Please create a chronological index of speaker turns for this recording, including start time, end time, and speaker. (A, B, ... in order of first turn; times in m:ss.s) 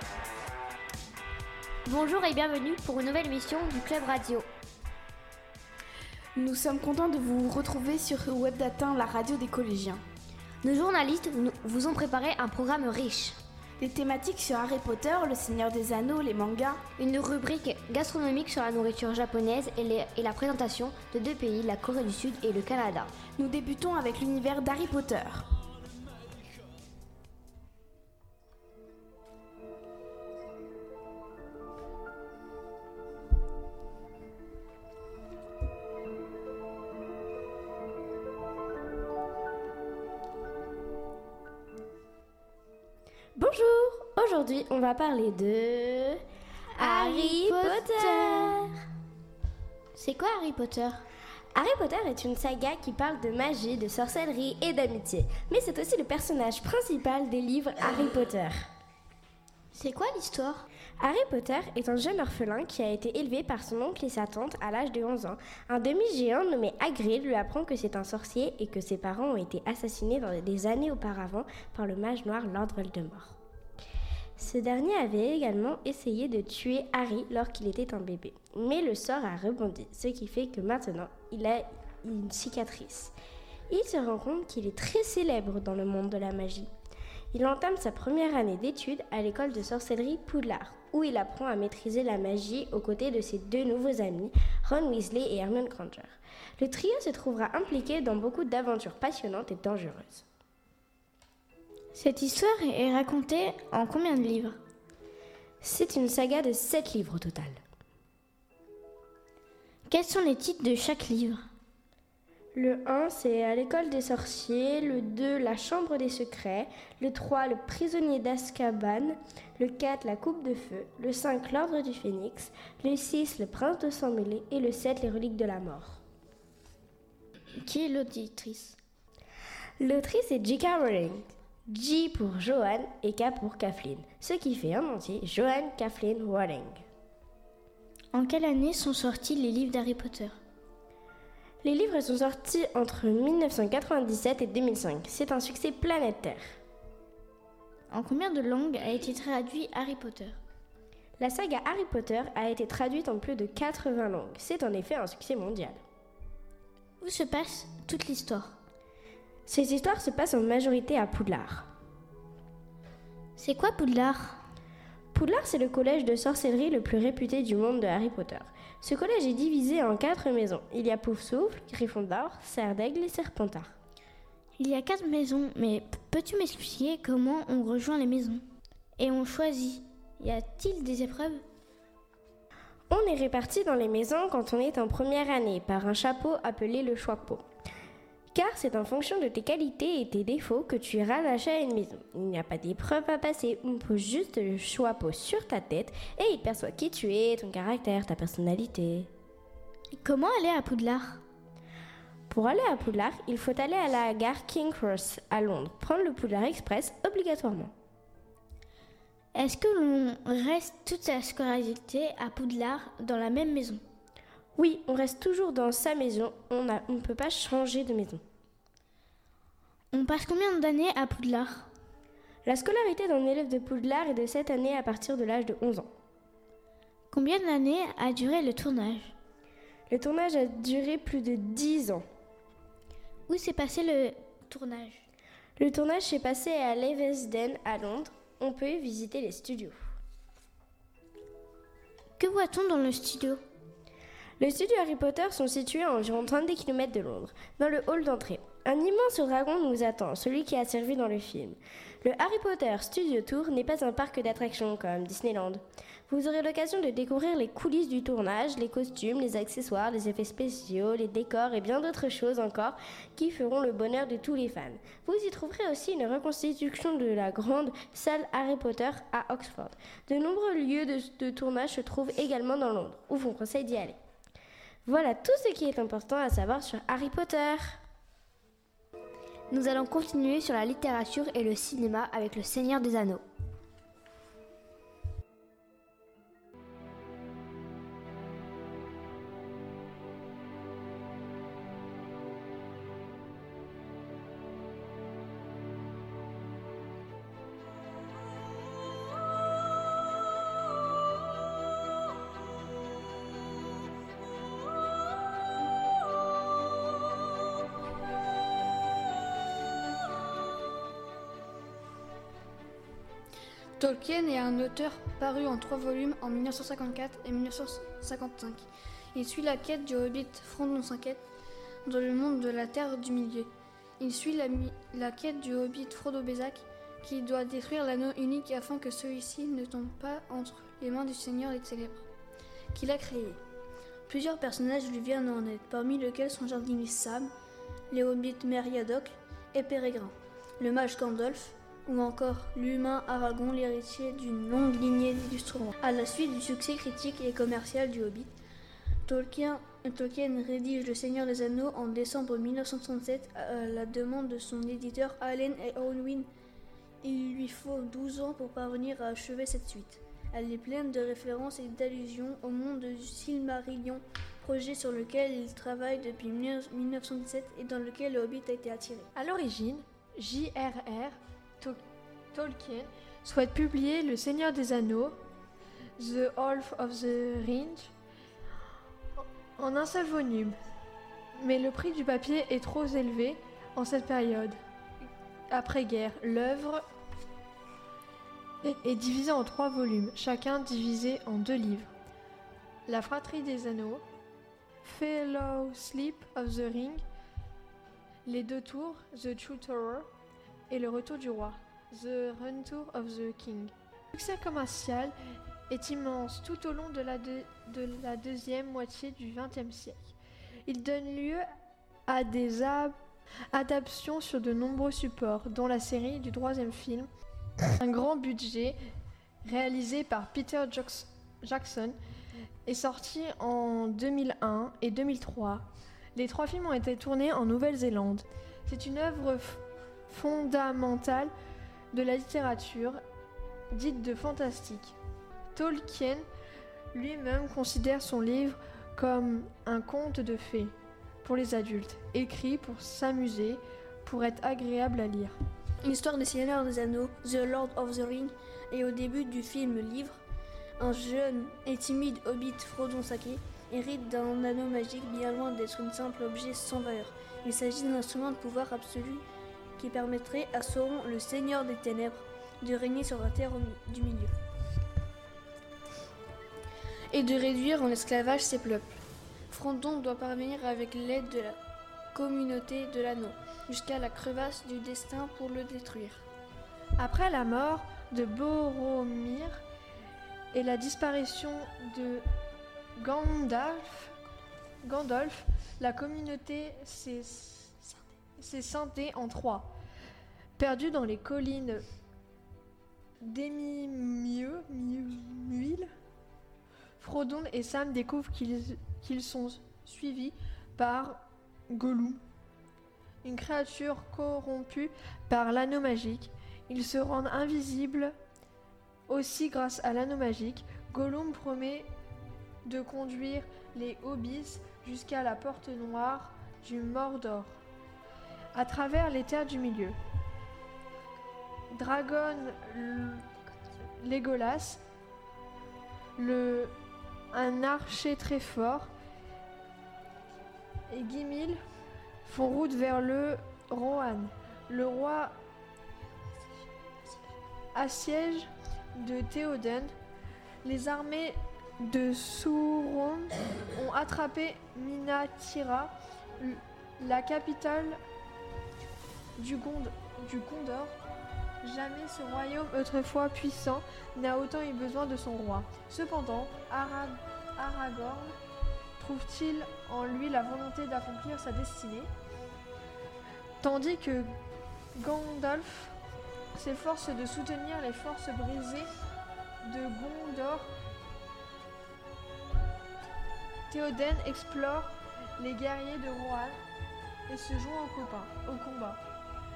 0:01.8-0:04.5 A
0:06.5-0:10.0 B
0:10.6-0:13.4 A
0:13.8-0:15.9 B
0:17.0-0:23.1 A
0:23.4-0:25.0 B
0:43.4-0:46.2 C
0:46.7-0:48.6 D
0:46.8-0:48.7 C
0:50.0-0:51.0 D
0:51.5-0:58.7 C
0:59.7-1:00.6 D
1:01.0-1:13.4 C
1:14.4-1:23.1 C
1:23.7-1:26.7 C
1:27.3-1:40.2 C
1:41.9-1:44.6 D
1:45.6-1:47.6 C
1:49.9-1:51.5 D
1:52.6-2:06.0 C
2:07.6-2:08.8 D
2:09.8-2:16.8 C
2:18.1-2:20.4 D
2:21.6-2:26.6 C
2:27.9-2:30.4 D
2:31.2-2:35.8 C
2:37.0-2:38.6 D
2:39.5-2:41.7 C
2:43.4-2:44.4 D
2:45.1-2:53.8 C
2:54.6-2:58.4 D
2:59.0-3:01.4 D
3:02.9-3:07.5 C
3:08.3-3:19.1 C
3:20.0-3:21.2 D
3:22.3-3:27.7 C
3:29.3-3:33.8 D
3:34.6-3:38.2 C
3:39.9-3:41.7 D
3:42.4-3:45.9 C
3:47.1-3:49.2 D
3:49.9-3:52.0 C
3:53.3-3:55.1 D
3:55.6-3:59.8 C
4:02.2-4:03.4 D
4:04.4-4:34.0 C
4:34.9-4:37.8 C
4:39.5-4:43.2 A
5:13.8-5:21.2 E
5:21.9-5:32.1 E
5:32.7-5:33.4 E
5:34.1-5:37.3 E
5:37.9-5:48.3 E
5:49.1-5:56.3 E
5:57.0-6:09.1 E
6:09.2-6:11.8 F
6:12.3-6:15.2 F
6:16.0-6:17.9 F
6:19.6-6:20.6 F
6:21.4-6:24.6 F
6:25.5-6:26.8 F
6:28.6-6:31.9 F
6:32.9-6:34.0 F
6:34.8-6:37.0 F
6:38.3-6:40.1 F
6:40.7-6:45.1 F
6:45.7-6:50.2 F
6:50.7-6:51.4 F
6:52.1-6:53.0 F
6:53.5-6:57.1 F
6:57.8-6:58.8 F
6:59.4-7:02.0 F
7:02.7-7:11.3 F
7:11.9-7:13.0 F
7:13.7-7:15.0 F
7:15.5-7:16.3 F
7:16.9-7:25.4 F
7:25.8-7:30.2 E
7:30.8-7:39.2 E
7:39.8-7:44.3 E
7:47.1-7:48.9 E
7:49.5-7:51.6 E
7:52.1-7:56.3 E
7:57.0-7:59.6 F
8:00.5-8:02.3 F
8:03.0-8:04.1 F
8:04.8-8:09.7 F
8:10.6-8:11.8 F
8:13.2-8:15.9 F
8:17.0-8:22.2 F
8:23.2-8:28.2 F
8:29.1-8:31.9 F
8:32.6-8:37.6 F
8:38.6-8:40.0 F
8:41.7-8:43.3 F
8:44.0-8:44.8 F
8:46.2-8:46.8 F
8:47.3-8:48.9 F
8:50.9-8:51.6 F
8:52.3-8:55.4 F
8:57.7-8:59.9 F
9:00.6-9:08.0 F
9:09.4-9:11.0 F
9:11.6-9:18.4 F
9:19.0-9:22.1 F
9:23.6-9:24.3 F
9:25.0-9:26.0 F
9:26.6-9:28.9 F
9:29.6-9:30.7 F
9:33.7-9:36.6 F
9:37.3-9:39.0 F